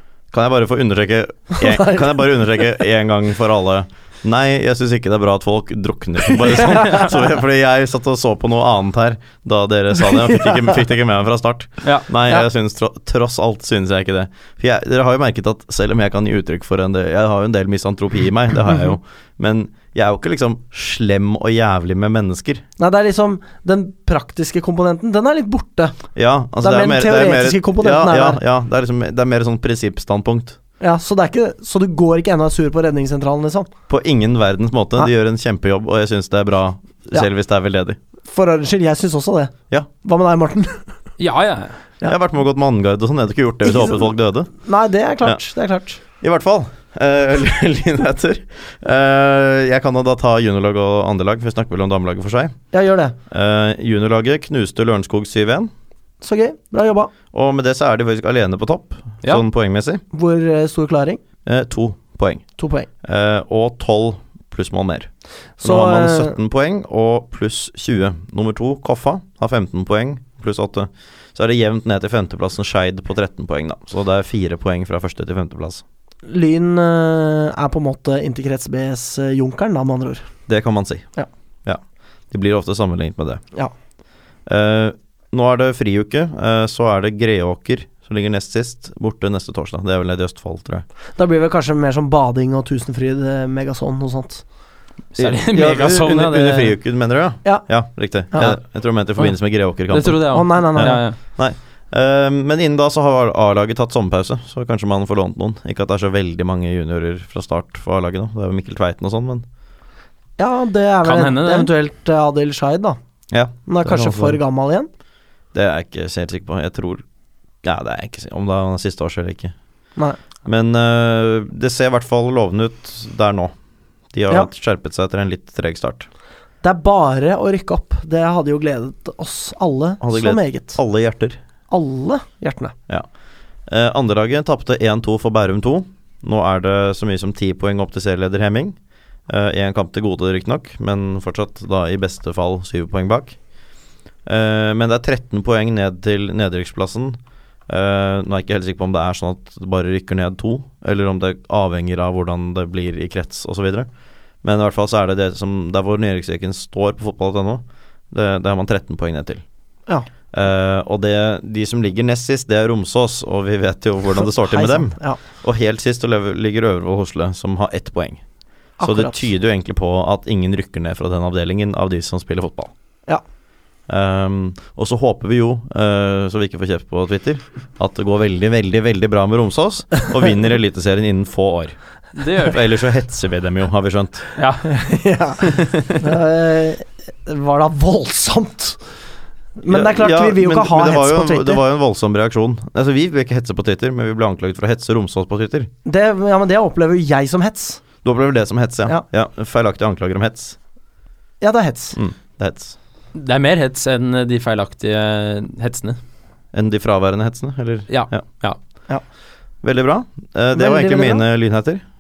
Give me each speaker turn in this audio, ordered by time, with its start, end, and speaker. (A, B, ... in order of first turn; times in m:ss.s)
0:00.3-0:22.6 A
0:01.6-0:02.2 B
0:06.8-0:07.0 B
0:10.1-0:10.7 B
0:22.8-0:26.0 B
0:26.2-0:30.6 A
0:26.6-0:28.4 B
0:30.8-0:33.7 B
0:33.9-0:38.0 A
0:38.3-0:40.9 B
0:41.2-0:41.8 C
0:42.1-0:44.5 A
0:43.6-0:46.0 B
0:46.2-0:52.6 A
0:52.7-0:53.2 B
0:53.3-0:55.7 A
0:56.2-0:57.1 B
0:57.3-1:00.0 A
1:00.1-1:01.2 B
1:01.5-1:02.5 A
1:02.6-1:02.9 B
1:03.0-1:15.8 A
1:05.6-1:06.4 B
1:16.3-1:20.3 B
1:20.5-1:21.1 A
1:21.6-1:23.4 A
1:24.5-1:30.8 A
1:31.2-1:34.4 B
1:35.2-1:36.8 C
1:35.2-1:49.4 A
1:37.4-1:37.7 B
1:38.3-1:38.6 B
1:39.2-1:41.2 C
1:40.3-1:41.0 B
1:50.4-1:53.0 B
1:51.0-1:51.7 C
1:53.3-1:54.4 A
1:53.7-1:54.9 B
1:55.5-1:57.0 A
1:57.6-1:59.5 A
2:00.4-2:03.5 A
2:04.1-2:06.1 A
2:06.6-2:10.8 B
2:10.0-2:11.4 A
2:11.7-2:12.7 B
2:13.7-2:18.8 A
2:19.3-2:23.4 A
2:24.2-2:33.9 A
2:34.4-2:39.4 A
2:40.3-2:48.2 A
2:44.2-2:45.2 B
2:48.8-2:49.2 B
2:48.8-2:52.7 A
2:53.9-3:01.8 A
3:02.2-3:02.6 C
3:02.4-3:04.3 A
3:04.4-3:04.9 C
3:04.7-3:08.8 B
3:05.4-3:06.0 C
3:09.6-3:11.6 B
3:09.7-3:15.7 A
3:15.8-3:17.8 B
3:18.0-3:20.6 A
3:21.4-3:22.0 B
3:22.0-3:22.8 A
3:23.2-3:26.0 C
3:26.5-3:28.2 A
3:27.9-3:28.6 C
3:29.6-3:31.8 A
3:30.5-3:31.2 B